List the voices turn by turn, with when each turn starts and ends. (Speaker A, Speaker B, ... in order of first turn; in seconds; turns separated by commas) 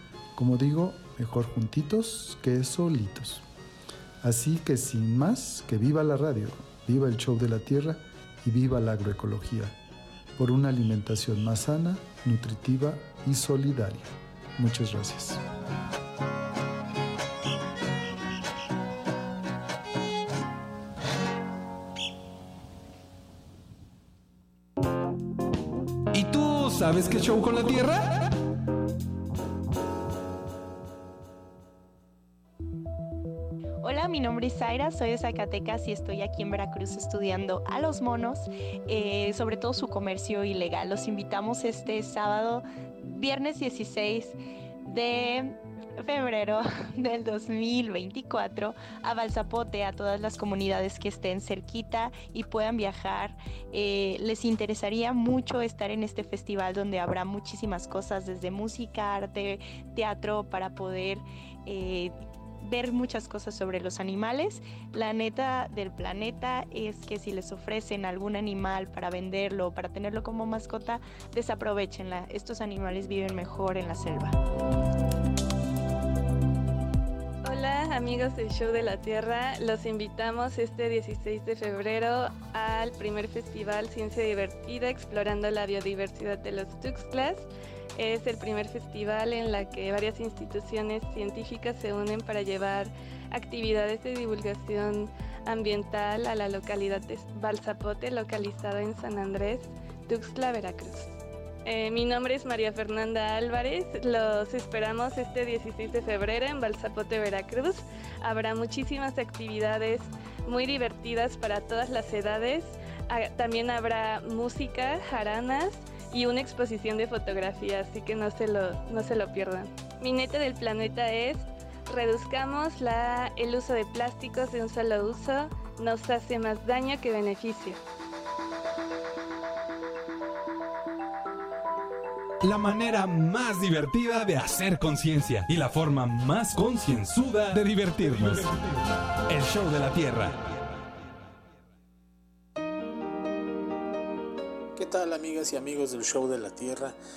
Speaker A: 0.3-3.4, Speaker A: 4.2-9.7, Speaker A: 10.4-15.4, Speaker B: 26.1-28.3, Speaker C: 33.8-74.4, Speaker D: 77.4-87.5, Speaker D: 88.0-101.1, Speaker D: 101.6-127.8, Speaker B: 132.4-138.6, Speaker B: 139.3-140.4, Speaker E: 144.7-146.9